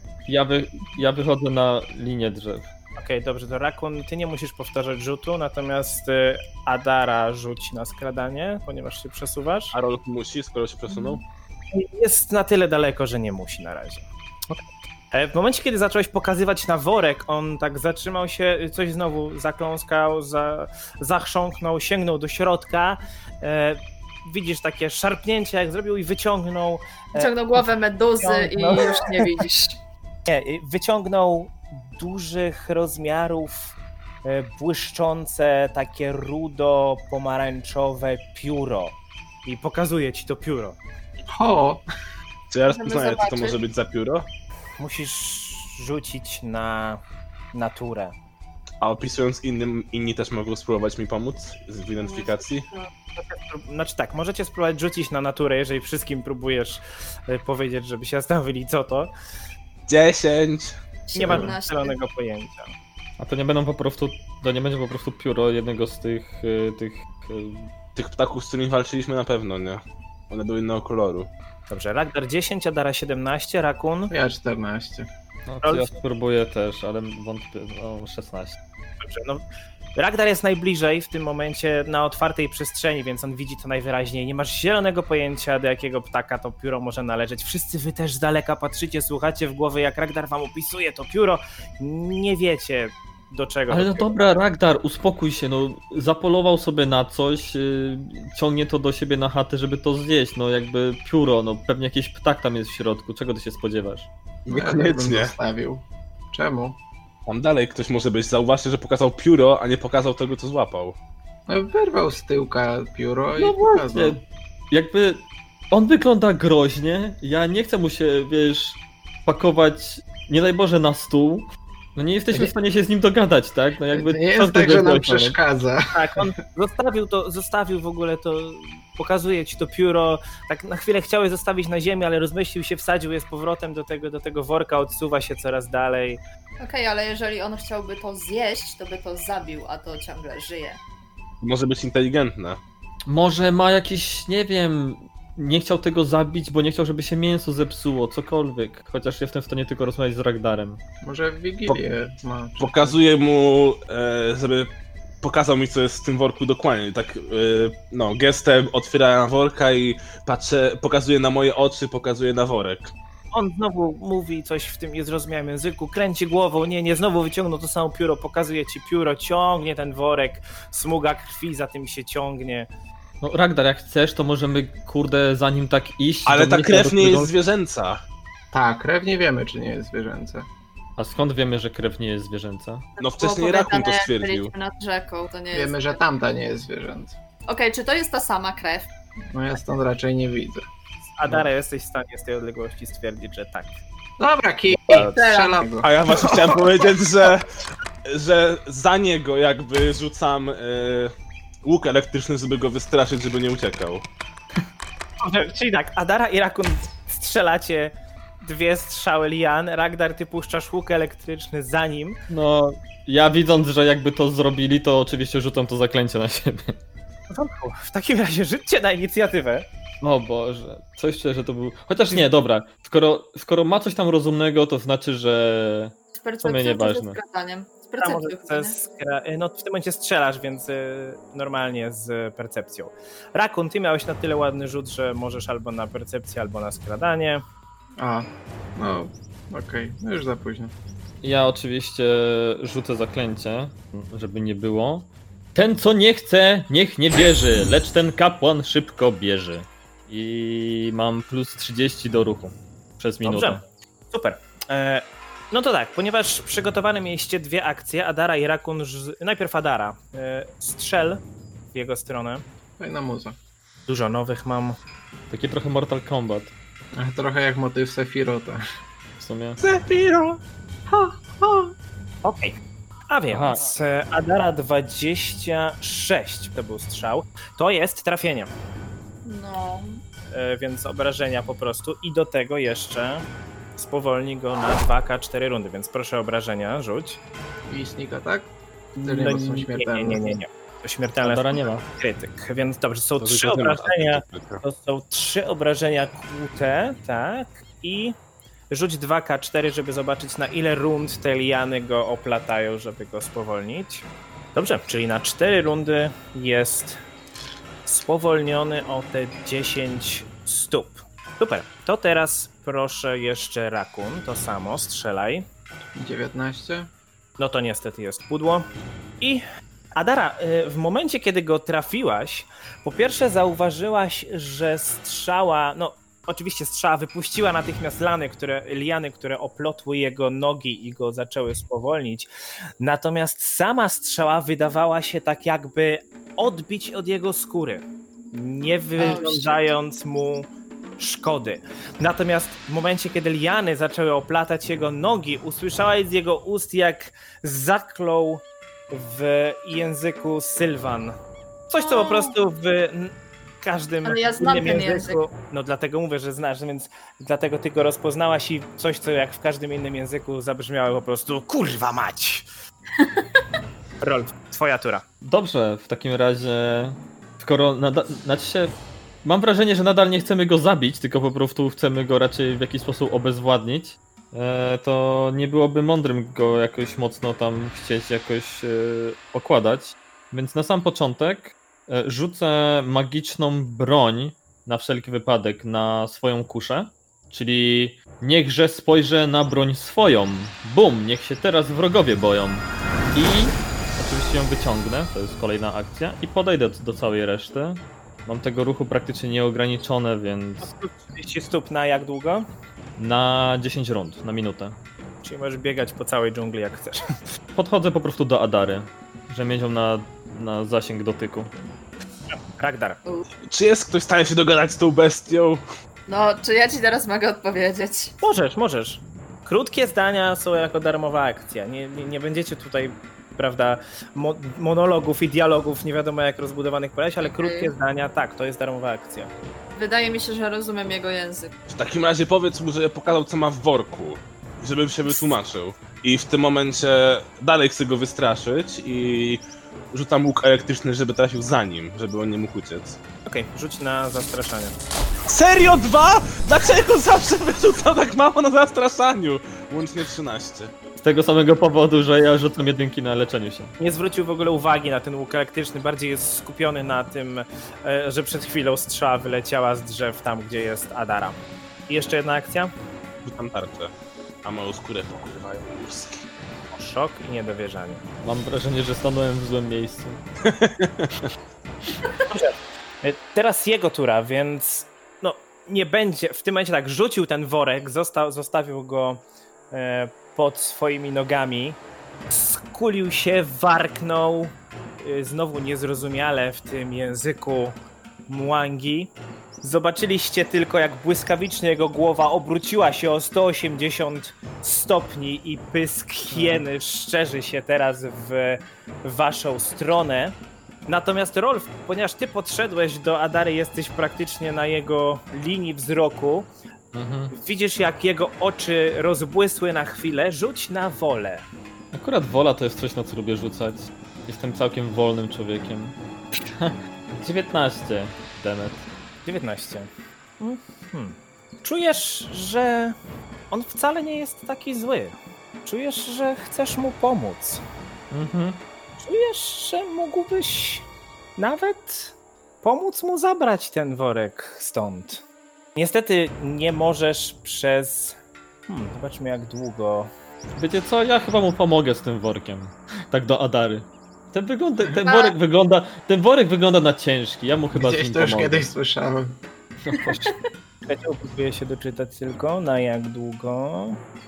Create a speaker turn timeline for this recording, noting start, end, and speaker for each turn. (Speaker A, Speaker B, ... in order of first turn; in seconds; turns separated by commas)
Speaker A: 0.3-2.7, Speaker B: 3.0-9.7, Speaker C: 9.7-11.2, Speaker B: 11.7-29.3, Speaker D: 27.1-29.8, Speaker B: 30.2-40.8, Speaker E: 41.3-41.8, Speaker C: 42.5-44.3, Speaker D: 42.7-43.6, Speaker B: 44.8-47.0, Speaker B: 47.5-48.1, Speaker C: 48.8-52.7, Speaker D: 52.0-52.9, Speaker B: 53.2-59.1, Speaker C: 59.9-60.8, Speaker D: 61.1-62.0, Speaker B: 61.1-62.7, Speaker C: 61.3-61.5, Speaker A: 63.2-67.7, Speaker C: 68.0-71.3, Speaker B: 71.7-74.1, Speaker E: 74.1-75.1, Speaker A: 75.5-78.6, Speaker B: 75.6-75.9, Speaker B: 79.0-79.4, Speaker B: 80.0-94.3, Speaker A: 93.7-104.1, Speaker C: 104.4-105.3, Speaker E: 104.5-106.8, Speaker C: 107.3-111.0, Speaker E: 111.5-114.2, Speaker A: 113.3-125.4, Speaker E: 123.9-125.9, Speaker B: 125.9-136.2, Speaker D: 136.6-140.8, Speaker C: 141.4-142.6, Speaker A: 143.1-150.8, Speaker E: 151.0-153.0, Speaker C: 152.6-162.9, Speaker B: 163.3-172.7, Speaker A: 173.2-177.3, Speaker C: 176.2-178.0, Speaker E: 178.5-180.5, Speaker A: 181.0-182.8, Speaker D: 183.0-186.0, Speaker C: 183.0-184.5, Speaker E: 185.5-187.2, Speaker D: 187.5-188.9, Speaker E: 189.3-190.7, Speaker B: 191.2-193.7, Speaker E: 194.2-196.6, Speaker D: 194.9-195.7, Speaker C: 195.8-197.5, Speaker C: 198.1-201.1, Speaker C: 201.6-204.1, Speaker B: 205.2-212.2, Speaker A: 212.3-216.8, Speaker B: 217.3-219.7, Speaker A: 220.0-227.2, Speaker D: 226.1-228.8, Speaker B: 228.0-237.4, Speaker E: 238.0-240.7, Speaker A: 241.2-253.6, Speaker B: 253.2-261.2, Speaker B: 261.7-262.4, Speaker E: 262.8-263.4, Speaker B: 263.9-264.8, Speaker A: 265.3-266.5, Speaker E: 266.9-268.6, Speaker A: 269.2-269.6, Speaker C: 269.6-270.4, Speaker E: 270.9-271.7, Speaker B: 272.2-272.6, Speaker B: 273.1-278.5, Speaker A: 273.3-273.6, Speaker D: 279.2-280.0, Speaker B: 280.3-287.2, Speaker E: 287.7-288.5, Speaker B: 288.9-298.1, Speaker E: 289.0-290.3, Speaker A: 291.2-291.8, Speaker C: 293.2-294.6, Speaker B: 298.7-307.0, Speaker B: 307.8-315.5, Speaker E: 315.9-316.9, Speaker B: 317.4-318.7, Speaker B: 319.9-332.3, Speaker B: 332.8-340.5, Speaker D: 339.0-339.6, Speaker B: 341.0-351.1, Speaker B: 351.7-362.4, Speaker D: 351.8-352.3, Speaker D: 354.0-355.2, Speaker D: 363.0-363.2, Speaker B: 364.0-365.0, Speaker A: 365.2-400.7, Speaker B: 400.6-402.5, Speaker A: 403.0-404.8, Speaker B: 405.2-407.0, Speaker A: 407.5-411.5, Speaker B: 412.6-413.0, Speaker C: 413.5-415.6, Speaker D: 416.1-418.1, Speaker B: 418.2-429.3, Speaker D: 427.2-427.7, Speaker D: 429.7-431.5, Speaker C: 431.7-443.0, Speaker B: 443.2-444.8, Speaker C: 445.3-450.7, Speaker A: 451.0-453.7, Speaker B: 453.8-462.7, Speaker C: 463.2-463.9, Speaker C: 464.4-466.3, Speaker B: 466.7-468.0, Speaker A: 468.2-470.2, Speaker C: 470.4-471.3, Speaker B: 472.3-481.8, Speaker B: 482.3-487.8, Speaker B: 488.3-500.3, Speaker B: 500.9-506.5, Speaker A: 506.9-507.3, Speaker B: 507.3-511.4, Speaker A: 511.9-518.8, Speaker B: 519.2-523.0, Speaker B: 523.5-527.6, Speaker A: 528.1-528.6, Speaker B: 529.0-535.2, Speaker B: 535.7-538.2, Speaker B: 538.7-540.1, Speaker A: 540.5-548.6, Speaker D: 545.0-545.4, Speaker E: 547.7-549.4, Speaker A: 549.8-550.3, Speaker D: 550.0-550.4, Speaker B: 550.9-554.0